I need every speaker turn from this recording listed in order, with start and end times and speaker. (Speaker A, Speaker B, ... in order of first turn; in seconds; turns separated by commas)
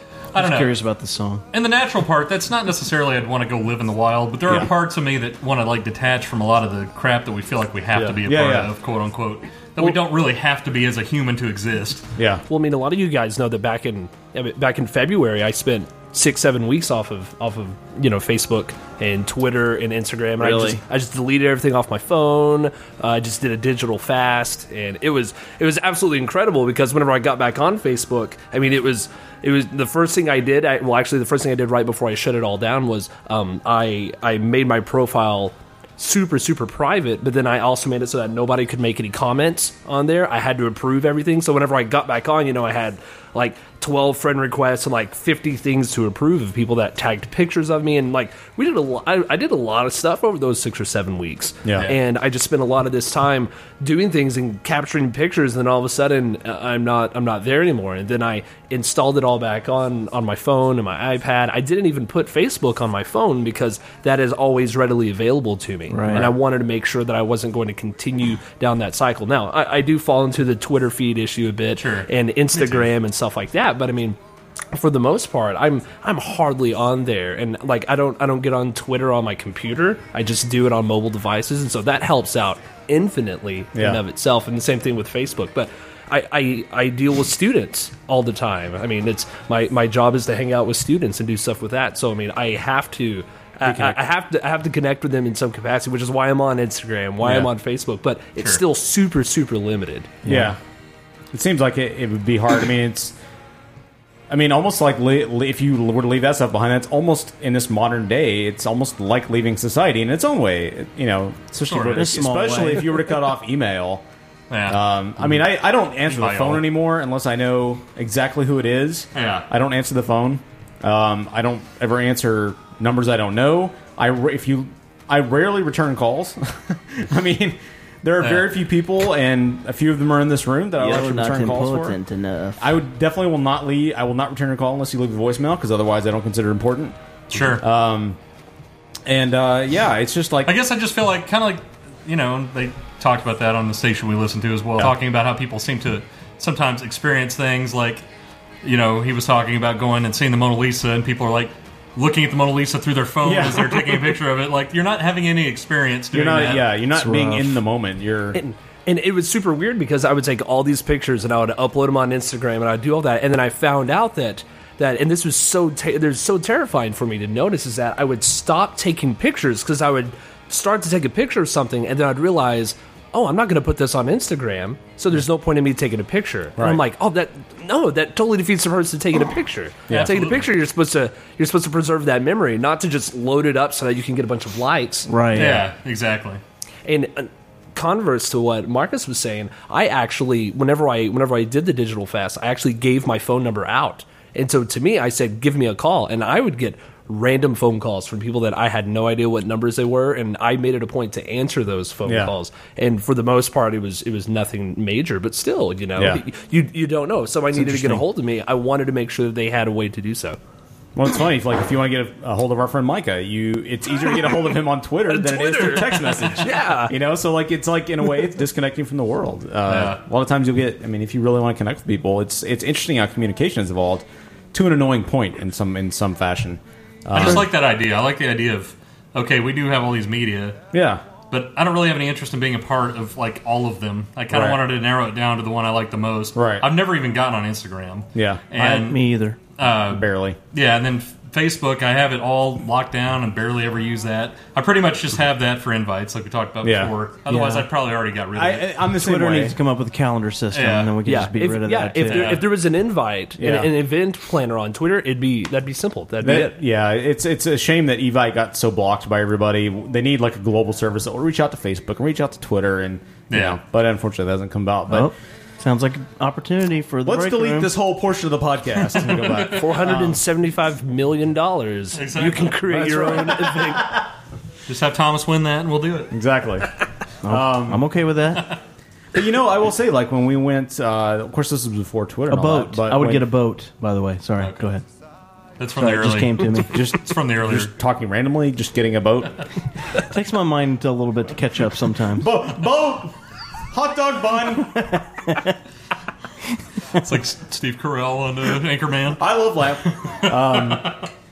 Speaker A: 0.3-0.7, Speaker B: 0.3-1.4, Speaker A: 1.5-12.1, Speaker C: 8.2-8.7, Speaker C: 12.2-12.4, Speaker D: 12.5-74.2, Speaker B: 20.4-20.8, Speaker C: 51.6-51.9, Speaker B: 65.9-66.3, Speaker A: 71.8-72.9, Speaker D: 74.7-100.2, Speaker C: 83.7-84.0, Speaker C: 93.6-94.0, Speaker C: 97.2-97.5, Speaker B: 100.3-100.5, Speaker C: 100.3-100.6, Speaker C: 101.3-103.1, Speaker C: 104.3-114.0, Speaker A: 111.7-112.1, Speaker B: 111.9-113.1, Speaker A: 114.5-114.8, Speaker C: 114.7-132.0, Speaker A: 116.1-116.7, Speaker A: 119.1-119.5, Speaker A: 128.2-128.5, Speaker B: 130.8-132.6, Speaker C: 132.6-138.2, Speaker A: 137.3-137.6, Speaker C: 139.1-140.5, Speaker A: 140.4-148.0, Speaker A: 148.6-156.7, Speaker C: 153.2-154.1, Speaker C: 156.1-158.4, Speaker B: 156.9-157.6, Speaker D: 158.3-185.1, Speaker C: 176.6-176.8, Speaker A: 179.9-180.4, Speaker B: 185.1-185.6, Speaker A: 185.3-186.4, Speaker D: 186.9-210.4, Speaker C: 202.1-202.3, Speaker C: 205.9-206.2, Speaker B: 207.7-208.0, Speaker C: 210.9-227.5, Speaker D: 215.1-216.9, Speaker A: 219.7-220.0, Speaker A: 227.1-230.6, Speaker C: 230.7-231.0, Speaker A: 231.3-239.0, Speaker C: 234.3-234.6, Speaker C: 236.3-236.7, Speaker C: 238.1-238.6, Speaker B: 238.6-239.4, Speaker A: 239.6-248.8, Speaker C: 239.9-240.4, Speaker C: 246.6-246.9, Speaker B: 247.3-247.6, Speaker C: 248.3-249.6, Speaker B: 249.0-252.4, Speaker A: 250.5-251.0, Speaker D: 251.1-256.5, Speaker A: 252.1-252.4, Speaker C: 253.4-253.7, Speaker C: 256.2-265.1, Speaker A: 263.3-263.6, Speaker B: 264.9-267.7, Speaker C: 267.1-270.2, Speaker A: 268.8-269.5, Speaker D: 269.5-274.0, Speaker A: 271.9-272.6, Speaker C: 272.8-273.5, Speaker A: 274.7-276.1, Speaker C: 276.1-276.7, Speaker B: 277.2-278.5, Speaker C: 277.3-277.8, Speaker C: 279.1-283.3, Speaker B: 282.3-284.8, Speaker A: 285.6-287.7, Speaker B: 285.8-286.9, Speaker C: 286.7-289.3, Speaker B: 290.1-292.3, Speaker C: 292.2-293.1, Speaker C: 293.7-294.8, Speaker B: 294.9-295.5, Speaker A: 297.0-299.2, Speaker C: 299.2-301.0, Speaker A: 299.9-300.8